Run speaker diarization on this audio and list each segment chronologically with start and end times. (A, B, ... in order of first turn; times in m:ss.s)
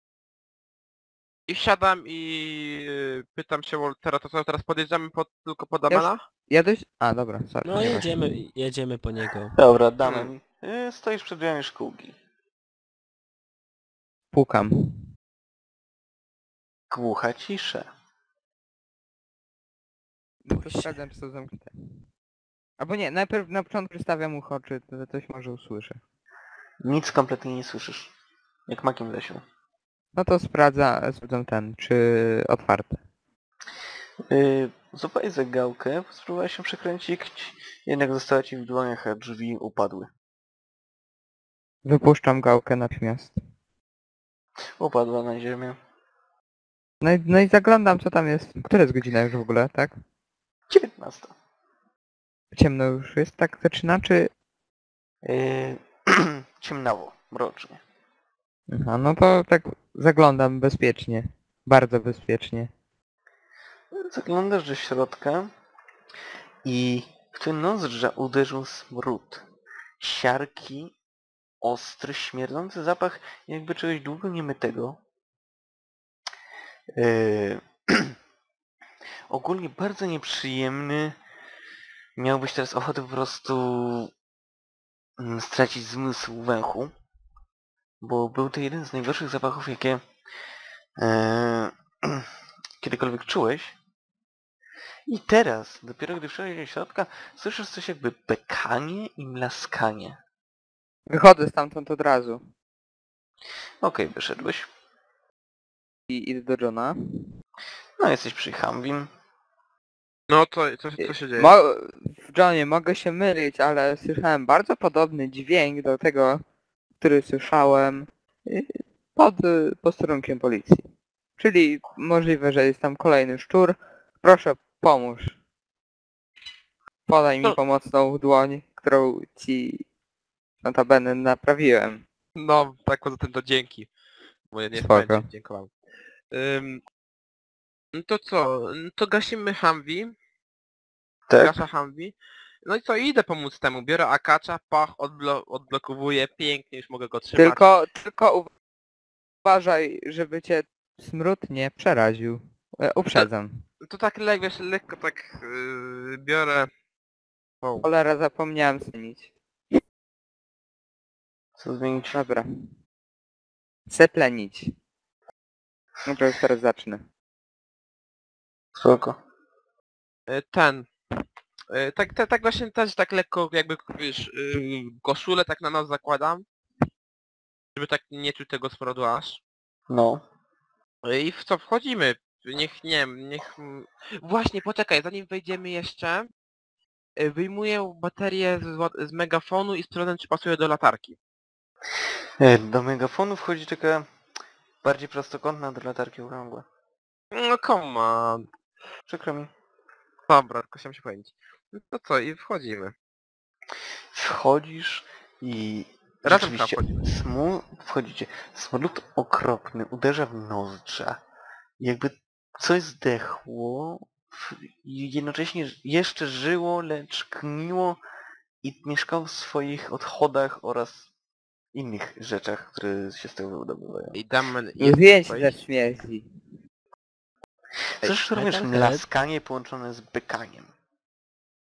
0:01.5-0:06.2 A
0:05.9-0:08.2 B
0:07.6-0:09.6 C
0:09.6-0:12.2 D
0:10.0-0:10.3 A
0:14.3-0:15.0 B
0:16.9-0:17.9 D
0:20.4-0:21.7 B
0:22.8-0:26.0 B
0:26.8-0:28.1 D
0:28.7-0:29.4 D
0:30.1-0:33.0 B
0:34.3-0:40.1 D
0:41.8-0:43.3 B
0:44.8-0:45.8 D
0:47.0-0:49.9 B
0:50.7-0:51.3 D
0:52.5-0:54.3 B
0:55.2-0:57.8 D
0:58.7-1:02.7 B
1:03.9-1:05.5 D
1:06.6-1:09.4 D
1:10.0-1:10.9 D
1:11.6-1:15.0 D
1:16.9-1:18.2 D
1:19.3-1:21.2 D
1:22.2-1:24.1 D
1:25.2-1:26.9 D
1:28.0-1:30.0 D
1:31.0-1:32.3 D
1:32.8-1:33.8 D
1:35.1-1:40.2 D
1:41.1-1:42.4 B
1:43.8-1:44.7 D
1:46.1-1:47.0 B
1:48.0-1:49.1 D
1:50.3-1:51.5 A
1:51.0-1:56.4 B
1:57.0-2:00.9 B
2:01.4-2:05.4 B
2:07.1-2:09.8 B
2:10.6-2:12.0 B
2:12.3-2:13.9 A
2:14.5-2:15.7 A
2:14.7-2:15.2 B
2:16.3-2:16.8 A
2:17.9-2:20.1 A
2:21.3-2:21.6 D
2:21.4-2:27.6 A
2:27.4-2:28.5 B
2:29.4-2:33.6 B
2:33.8-2:36.7 A
2:37.6-2:37.9 A
2:37.8-2:39.3 B
2:41.6-2:42.2 D
2:42.1-2:42.5 B
2:43.9-2:44.7 B
2:46.0-2:47.0 B
2:48.7-2:49.2 D
2:50.3-2:50.9 A
2:51.7-2:56.4 A
2:57.7-2:59.4 A
2:59.9-3:00.2 D
3:01.0-3:06.3 A
3:07.2-3:11.2 A
3:12.4-3:14.0 D
3:14.8-3:16.6 D
3:17.3-3:18.5 A
3:19.1-3:19.5 D
3:20.3-3:22.9 A
3:24.1-3:31.2 D
3:26.2-3:27.0 A
3:31.8-3:38.0 D
3:38.6-3:41.1 D
3:41.7-3:44.2 D
3:44.1-3:45.6 A
3:44.8-3:46.2 B
3:48.0-3:50.7 D
3:48.0-3:49.0 C